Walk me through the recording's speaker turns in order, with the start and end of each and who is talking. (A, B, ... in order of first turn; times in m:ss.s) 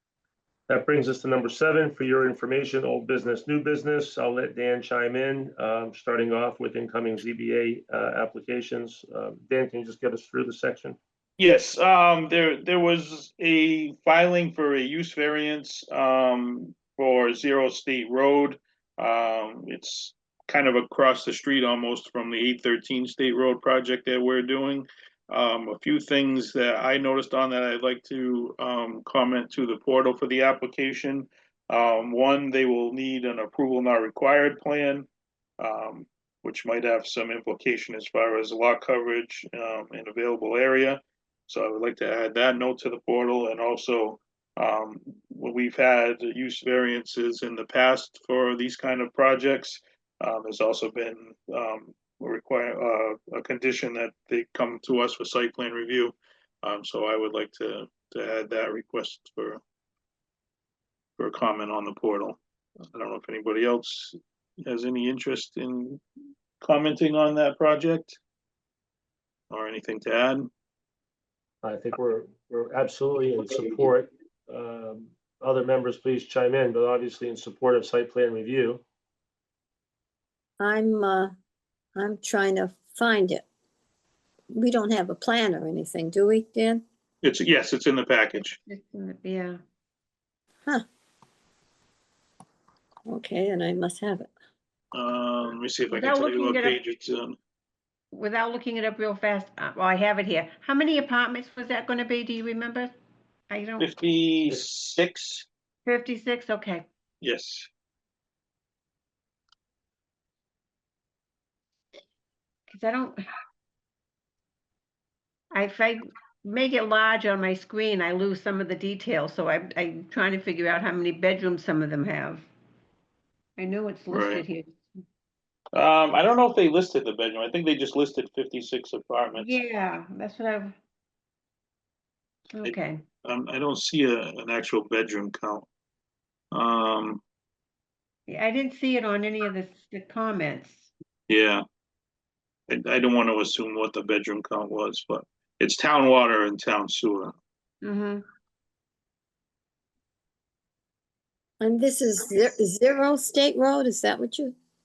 0:00.7-0:11.0 A
0:11.4-0:35.1 B
0:35.6-0:59.6 B
1:01.2-1:02.4 B
1:02.9-1:06.0 B
1:06.6-1:08.2 B
1:09.5-1:10.5 B
1:11.6-1:18.8 A
1:20.6-1:21.4 C
1:22.0-1:23.4 C
1:24.5-1:26.8 C
1:27.2-1:28.6 B
1:28.7-1:29.6 D
1:33.1-1:34.3 C
1:34.9-1:37.4 B
1:35.9-1:36.8 D
1:38.1-1:43.0 D
1:43.5-1:43.9 D
1:43.8-1:45.5 B
1:45.9-1:46.9 D
1:47.2-1:47.7 B
1:52.7-1:53.2 D
1:55.5-2:02.5 D
2:03.6-2:04.8 D
2:04.1-2:04.4 B
2:05.7-2:09.6 B
2:09.4-2:10.7 D
2:12.5-2:13.0 D
2:12.6-2:15.7 B
2:16.5-2:17.2 B
2:18.3-2:20.9 D
2:21.3-2:21.6 B
2:22.7-2:27.3 B
2:27.8-2:28.2 D
2:31.6-2:34.6 C